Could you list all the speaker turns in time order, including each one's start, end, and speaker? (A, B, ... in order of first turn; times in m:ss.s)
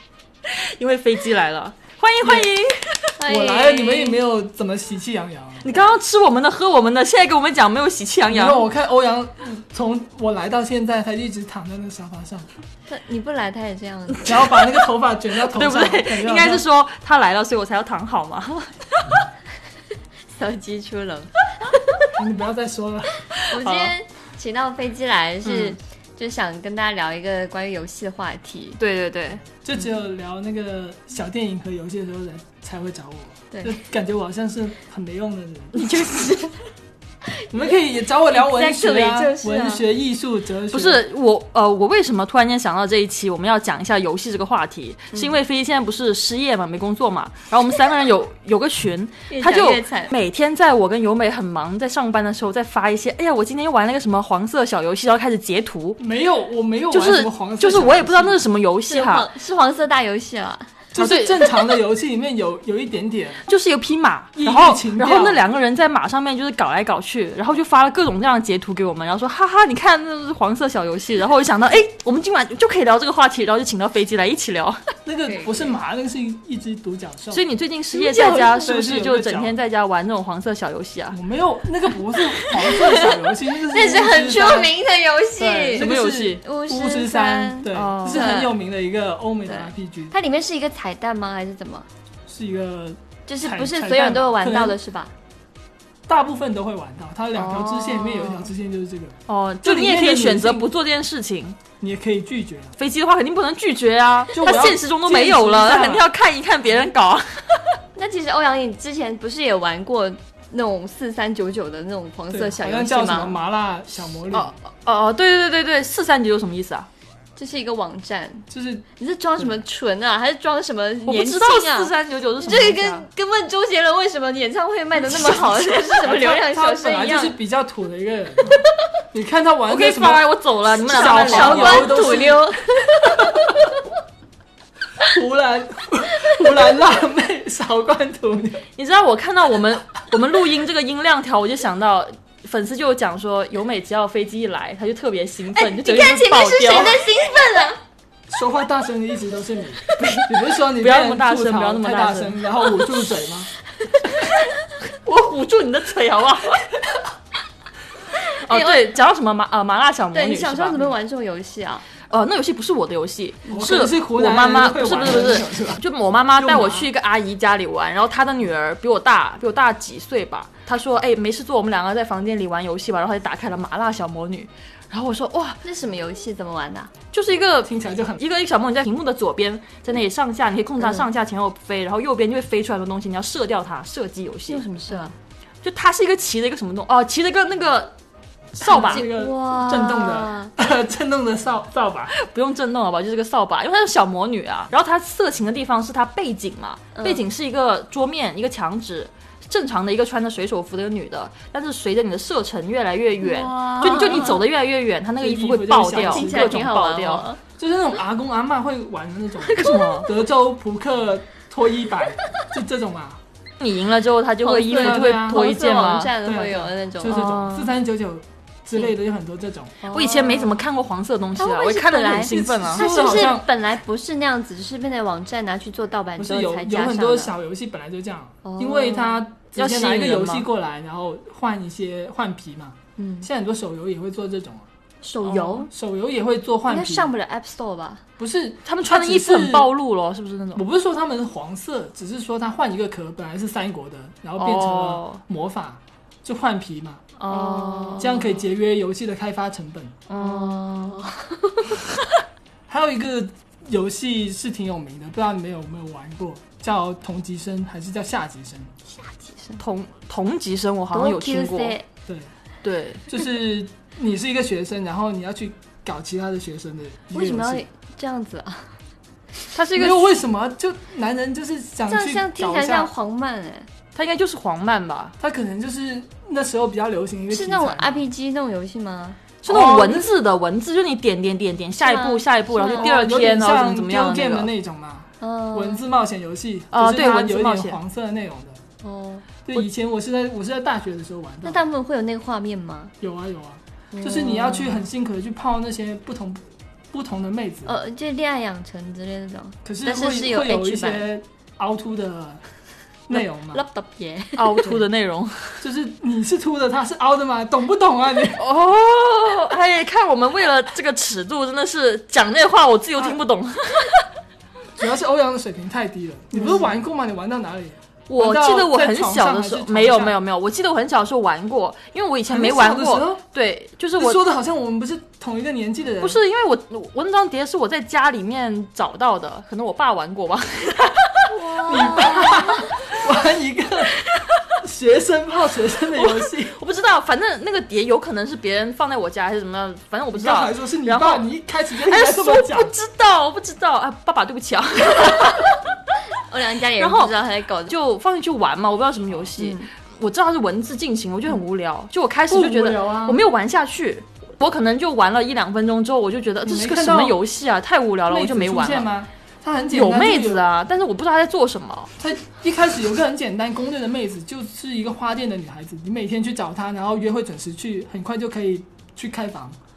0:00.5-0:03.1 A
0:02.2-0:02.5 B
0:03.2-0:04.2 C
0:03.2-0:05.7 B
0:05.6-0:08.6 A
0:08.3-0:12.5 B
0:12.9-0:14.3 C
0:14.2-0:16.6 B
0:15.5-0:19.1 A
0:20.3-0:21.8 C
0:22.1-0:23.1 B
0:23.4-0:23.9 A
0:23.5-0:28.8 C
0:25.4-0:25.8 A
0:28.8-0:29.4 A
0:29.6-0:35.8 B
0:33.5-0:33.8 C
0:35.8-0:36.5 C
0:37.5-0:41.0 B
0:38.3-0:39.8 C
0:40.7-0:56.0 A
0:49.3-0:50.1 C
0:56.0-0:58.4 B
0:56.9-0:59.3 A
0:58.9-1:00.7 C
1:00.9-1:03.4 B
1:00.9-1:01.5 A
1:03.5-1:14.8 A
1:04.3-1:05.4 B
1:15.0-1:17.4 B
1:15.3-1:15.6 C
1:17.3-1:21.2 A
1:17.9-1:18.5 C
1:18.2-1:19.6 B
1:21.1-1:24.7 B
1:22.6-1:25.9 C
1:25.4-1:26.4 A
1:25.7-1:30.1 B
1:26.4-1:28.5 C
1:27.7-1:28.3 A
1:29.5-1:31.9 C
1:32.3-1:34.8 B
1:33.3-1:35.1 C
1:36.1-1:40.7 B
1:37.4-1:38.5 C
1:37.5-1:38.0 A
1:39.3-1:41.6 A
1:41.8-1:42.7 B
1:42.8-1:47.6 A
1:44.3-1:46.0 B
1:47.9-1:53.3 C
1:52.3-1:54.5 B
1:54.3-1:56.9 A
1:57.4-2:07.4 C
1:58.5-1:58.8 B
2:01.0-2:03.0 A
2:05.0-2:05.9 A
2:06.0-2:08.6 B
2:09.1-2:12.4 B
2:09.7-2:12.2 A
2:10.9-2:13.2 C
2:13.0-2:13.5 B
2:15.0-2:18.6 B
2:18.8-2:27.0 A
2:25.6-2:27.8 C
2:28.3-2:33.5 B
2:29.9-2:32.4 A
2:34.9-2:36.7 A
2:38.3-2:38.9 C
2:38.3-2:40.8 A
2:40.1-2:41.8 C
2:42.1-2:55.6 A
2:43.5-2:45.8 B
2:46.4-2:46.9 B
2:55.6-2:56.9 C
2:57.1-3:05.1 A
2:57.6-2:58.2 B
3:00.8-3:01.1 C
3:04.5-3:05.1 C
3:05.6-3:07.9 A
3:08.5-3:12.1 B
3:08.6-3:09.1 A
3:08.6-3:10.5 C
3:12.1-3:27.2 A
3:16.9-3:17.2 C
3:23.2-3:24.4 C
3:25.2-3:26.6 B
3:26.0-3:27.4 C
3:27.6-3:33.2 B
3:29.5-3:29.9 C
3:29.5-3:30.1 A
3:33.6-3:36.1 A
3:34.4-3:37.5 C
3:34.7-3:35.4 B
3:36.2-3:39.7 B
3:37.1-3:37.7 A
3:39.8-3:40.6 C
3:39.9-3:42.9 A
3:41.4-3:47.3 C
3:42.2-3:43.5 B
3:46.2-3:54.6 B
3:48.4-3:49.2 C
3:49.5-3:50.5 A
3:53.0-3:53.3 C
3:55.0-3:55.7 C
3:55.2-3:55.6 A
3:55.6-3:57.1 B
3:56.7-3:58.0 C
3:58.2-3:59.7 B
3:58.6-4:00.6 A
4:00.5-4:07.0 B
4:04.4-4:05.2 A
4:07.2-4:08.3 A
4:07.3-4:08.1 C
4:08.0-4:10.0 B
4:10.1-4:10.9 A
4:10.2-4:11.8 C
4:12.7-4:18.7 B
4:18.9-4:19.6 C
4:19.6-4:21.8 A
4:20.9-4:21.8 C
4:22.6-4:23.1 A
4:23.1-4:27.6 B
4:27.1-4:28.7 C
4:29.5-4:30.1 A
4:29.7-4:32.9 B
4:31.9-4:33.7 C
4:33.9-4:35.1 A
4:35.2-4:38.0 B
4:37.3-4:39.2 C
4:39.4-4:44.5 A
4:39.5-4:40.1 B
4:41.8-4:42.9 C
4:42.6-4:48.6 B
4:45.2-4:45.8 C
4:46.7-4:47.8 A
4:48.8-4:49.2 C
4:49.4-4:51.6 B
4:51.4-4:52.9 C
4:53.0-4:57.7 B
4:53.9-4:54.8 C
4:57.6-5:01.0 C
4:59.6-5:02.4 B
5:03.1-5:03.6 B
5:03.5-5:04.7 C
5:04.4-5:05.6 A
5:05.6-5:08.4 B
5:08.4-5:14.0 A
5:14.8-5:20.2 B
5:18.1-5:24.2 A
5:22.3-5:23.2 B
5:24.0-5:26.2 B
5:26.0-5:32.5 A
5:31.3-5:32.8 C
5:31.6-5:34.0 B
5:34.1-5:34.4 A
5:34.6-5:36.6 B
5:36.0-5:41.2 A
5:40.1-5:42.7 B
5:41.8-5:45.6 A
5:46.2-5:47.7 C
5:46.8-5:47.1 A
5:47.6-5:58.9 A
5:49.4-5:49.7 C
5:52.3-5:53.2 B
5:56.4-5:57.2 B
5:58.1-6:00.5 B
5:59.7-6:01.9 A
6:02.0-6:09.6 B